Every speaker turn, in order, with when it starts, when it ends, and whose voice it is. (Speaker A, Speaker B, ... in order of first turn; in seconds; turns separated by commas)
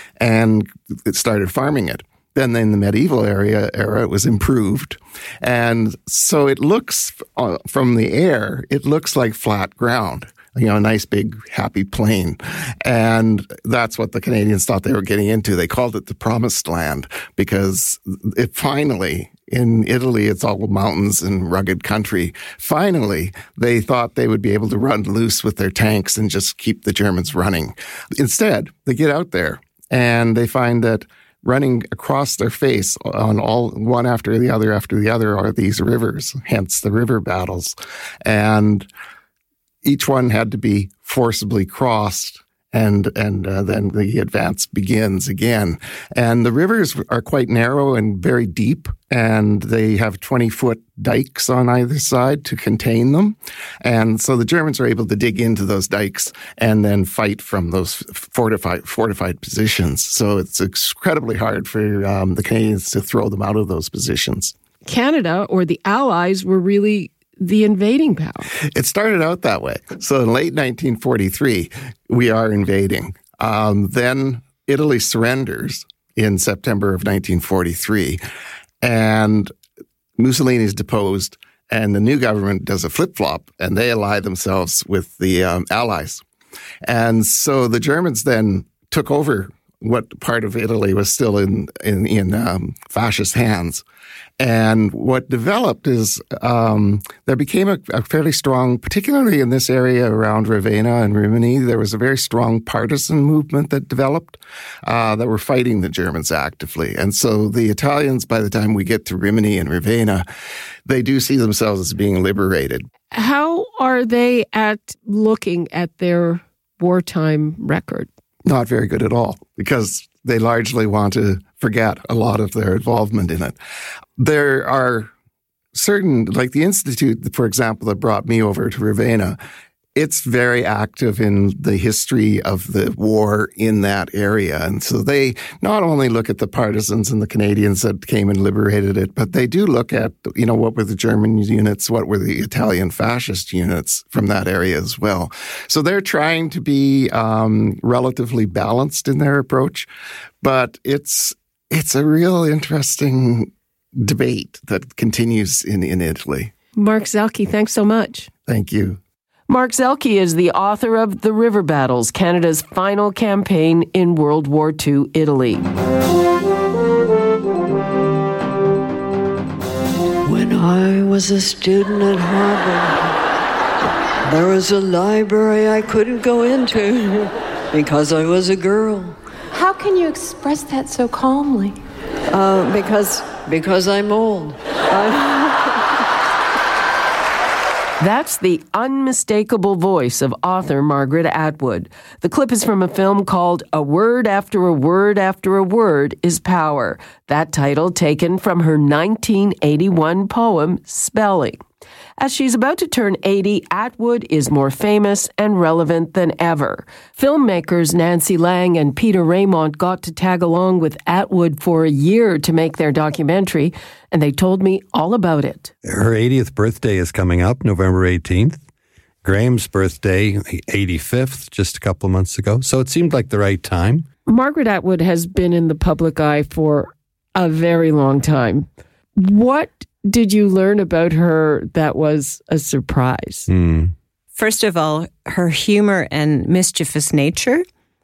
Speaker A: 0.2-38.9, Speaker A: 39.8-64.5, Speaker B: 64.8-68.5, Speaker A: 68.7-78.2, Speaker A: 78.8-79.5, Speaker A: 80.2-86.2, Speaker A: 86.8-93.8, Speaker A: 94.4-110.3, Speaker A: 110.9-112.9, Speaker B: 113.1-118.1, Speaker A: 118.5-123.5, Speaker A: 124.2-125.1, Speaker A: 125.8-129.4, Speaker A: 129.9-149.9, Speaker A: 150.4-156.5, Speaker B: 156.8-158.3, Speaker A: 158.5-159.0, Speaker B: 159.5-165.7, Speaker C: 170.3-172.9, Speaker C: 174.3-179.1, Speaker D: 179.6-181.7, Speaker C: 182.3-185.3, Speaker B: 188.0-201.6, Speaker B: 202.2-215.7, Speaker E: 215.8-218.6, Speaker E: 219.2-224.1, Speaker B: 224.3-228.7, Speaker B: 229.2-233.5, Speaker E: 233.5-233.9, Speaker F: 234.3-237.6